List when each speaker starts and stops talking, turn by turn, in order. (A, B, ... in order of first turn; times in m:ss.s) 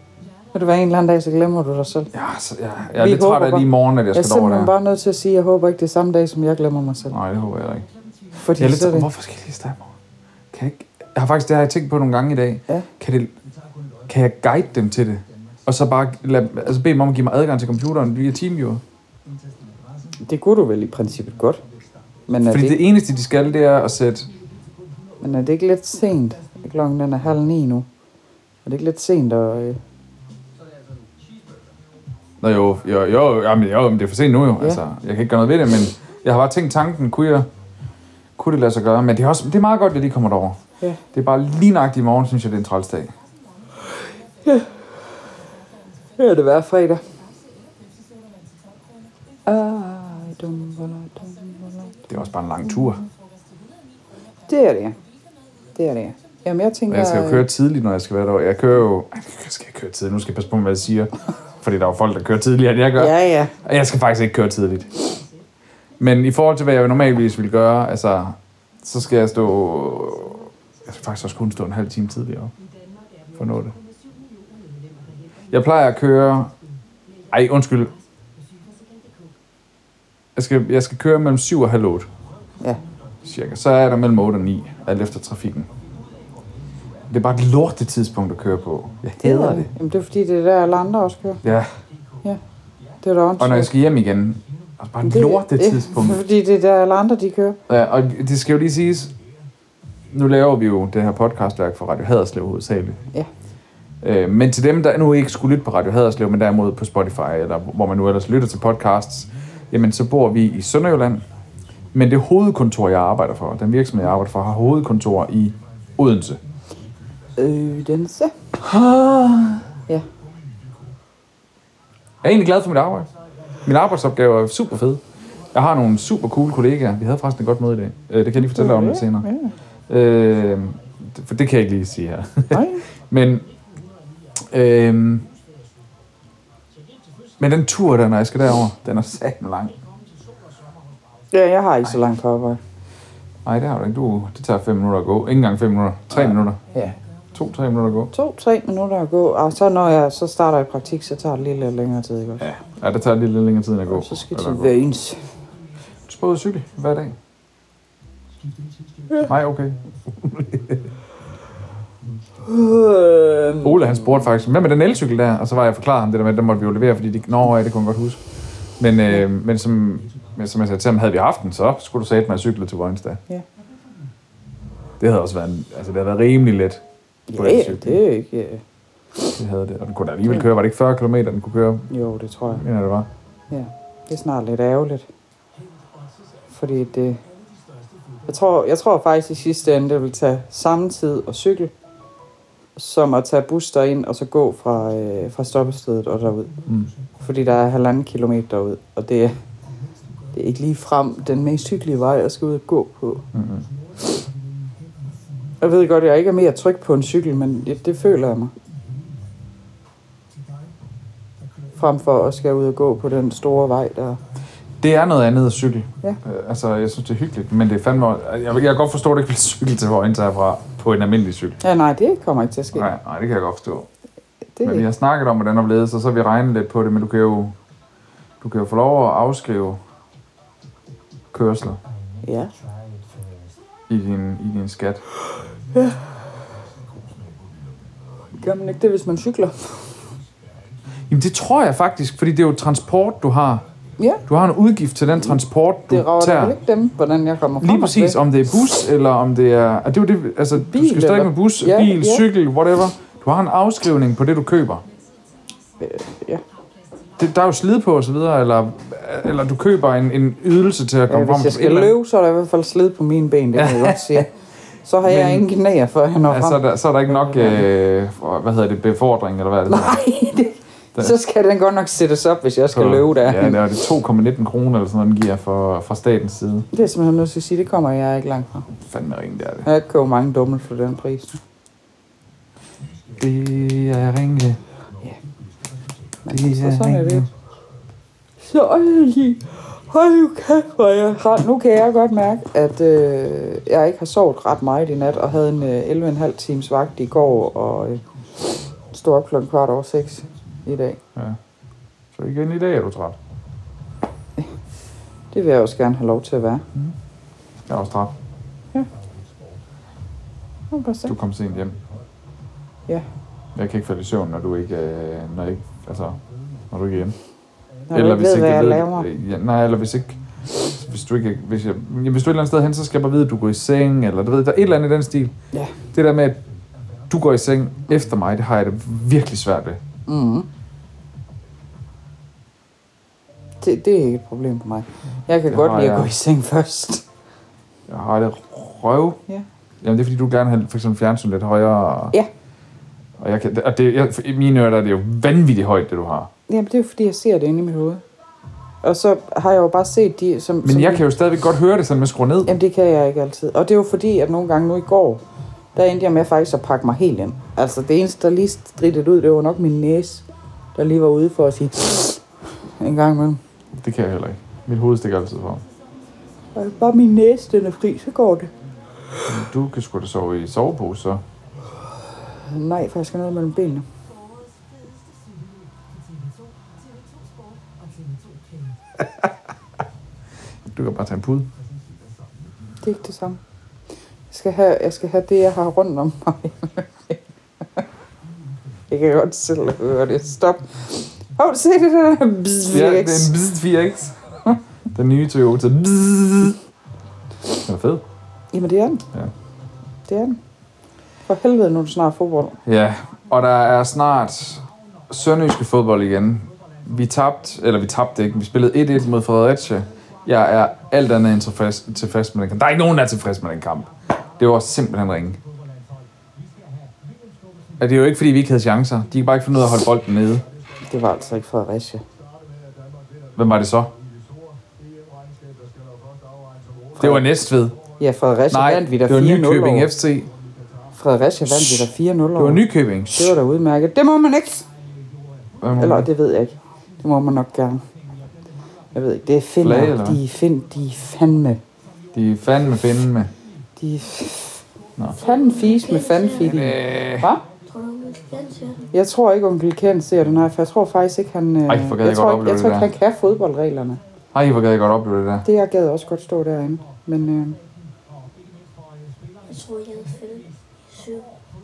0:00.5-0:02.1 A
0:02.1-0:04.7 B
0:02.9-0:07.2 A
0:07.1-0:07.9 B
0:08.4-0:09.1 A
0:08.6-0:09.9 B
0:10.5-0:13.3 B
0:14.1-0:18.8 B
0:20.2-0:21.6 A
0:22.3-0:22.8 A
0:22.5-0:24.3 B
0:25.2-0:27.9 A
0:28.6-0:29.8 A
0:32.4-0:37.5 B
0:38.4-0:40.6 B
0:41.1-0:43.1 B
0:44.4-0:44.8 A
0:46.2-0:47.0 A
0:49.4-0:52.0 A
0:52.1-0:53.0 B
0:54.5-0:55.0 A
0:55.7-0:57.4 A
0:56.9-1:05.2 B
1:03.0-1:03.5 A
1:06.0-1:12.5 B
1:13.3-1:13.7 B
1:15.5-1:16.5 B
1:17.3-1:17.9 B
1:20.4-1:22.1 B
1:23.2-1:25.7 B
1:27.1-1:29.7 B
1:29.2-1:31.4 A
1:31.4-1:31.7 B
1:33.0-1:33.7 A
1:33.4-1:36.2 B
1:35.0-1:37.6 A
1:37.7-1:39.1 B
1:40.1-1:43.0 B
1:44.0-1:51.2 B
1:51.9-1:56.4 B
1:57.4-1:58.3 A
1:58.6-1:59.6 B
2:02.2-2:03.1 B
2:03.6-2:05.0 B
2:05.5-2:09.3 B
2:08.4-2:09.5 A
2:09.9-2:13.4 B
2:12.5-2:12.8 A
2:14.4-2:15.2 B
2:17.4-2:19.7 B
2:21.3-2:22.6 A
2:23.4-2:26.6 B
2:26.1-2:27.0 A
2:27.3-2:28.1 B
2:28.1-2:32.5 A
2:32.4-2:34.7 B
2:33.9-2:35.2 A
2:36.1-2:37.2 B
2:39.2-2:40.8 B
2:42.4-2:43.9 A
2:43.6-2:48.2 B
2:48.8-2:53.2 B
2:55.0-2:56.8 B
2:57.3-2:58.6 A
2:57.3-2:58.0 B
2:59.4-3:01.9 B
3:01.9-3:02.6 A
3:02.5-3:03.1 B
3:03.5-3:05.1 A
3:06.5-3:07.2 A
3:08.2-3:11.7 A
3:12.8-3:16.5 A
3:17.2-3:19.4 A
3:20.3-3:23.2 A
3:23.3-3:23.6 B
3:25.6-3:28.5 A
3:31.8-3:34.2 A
3:34.8-3:41.6 B
3:41.6-3:42.9 A
3:42.7-3:43.9 B
3:44.6-3:44.8 A
3:44.6-3:47.5 B
3:48.4-3:49.8 B
3:51.3-3:51.8 B
3:52.2-3:52.5 A
3:53.9-3:55.0 B
3:55.7-3:56.0 A
3:58.4-4:00.0 A
4:01.1-4:03.6 B
4:04.0-4:04.2 A
4:04.3-4:06.6 B
4:05.9-4:08.2 A
4:07.6-4:14.8 B
4:10.6-4:12.2 A
4:15.8-4:16.4 A
4:17.2-4:22.0 B
4:21.1-4:24.3 A
4:23.5-4:24.2 B
4:24.8-4:27.6 A
4:25.0-4:25.4 B
4:26.3-4:30.0 B
4:29.7-4:33.6 A
4:32.7-4:36.7 B
4:36.7-4:38.7 A
4:38.8-4:39.7 B
4:39.6-4:41.4 A
4:43.2-4:44.6 B
4:46.2-4:47.2 A
4:46.3-4:47.3 B
4:48.4-5:01.0 A
5:02.1-5:03.2 B
5:05.3-5:06.6 A
5:07.7-5:08.1 B
5:10.7-5:11.1 A
5:11.0-5:11.8 B
5:13.5-5:16.2 B
5:16.7-5:17.2 B
5:17.9-5:19.1 A
5:17.9-5:25.3 B
5:25.9-5:26.4 B
5:27.1-5:29.8 B
5:30.1-5:30.5 A
5:33.6-5:37.0 A
5:35.5-5:36.1 B
5:37.9-5:39.2 B
5:39.8-5:42.1 B
5:43.2-5:46.3 B
5:46.5-5:48.0 A
5:48.8-5:51.0 A
5:50.6-5:52.5 B
5:52.5-5:55.2 A
5:55.7-6:02.2 A
6:02.8-6:03.4 A
6:03.7-6:05.6 B
6:06.5-6:08.5 A
6:09.2-6:11.2 B
6:12.4-6:13.8 A
6:20.7-6:21.5 B
6:22.8-6:23.4 A
6:24.3-6:27.2 A
6:28.9-6:33.3 A
6:32.7-6:36.6 B
6:37.6-6:38.0 B
6:38.5-6:39.0 A
6:40.1-6:40.4 A
6:41.2-6:42.6 A
6:42.6-6:55.4 B
6:57.8-7:00.4 B
7:00.9-7:02.0 A
7:03.4-7:03.9 B
7:07.0-7:07.2 A
7:07.0-7:07.8 B
7:08.0-7:09.9 A
7:08.5-7:10.3 B
7:10.9-7:14.6 A
7:11.5-7:13.3 B
7:15.6-7:16.1 B
7:15.8-7:17.8 A
7:18.9-7:21.6 A
7:19.6-7:20.2 B
7:22.1-7:23.3 B
7:23.8-7:24.6 A
7:25.1-7:27.4 A
7:25.2-7:26.8 C
7:26.4-7:27.3 B
7:27.7-7:28.9 C
7:28.9-7:34.0 A
7:31.7-7:32.9 B
7:34.3-7:35.4 B
7:35.4-7:37.6 A
7:39.5-7:41.2 C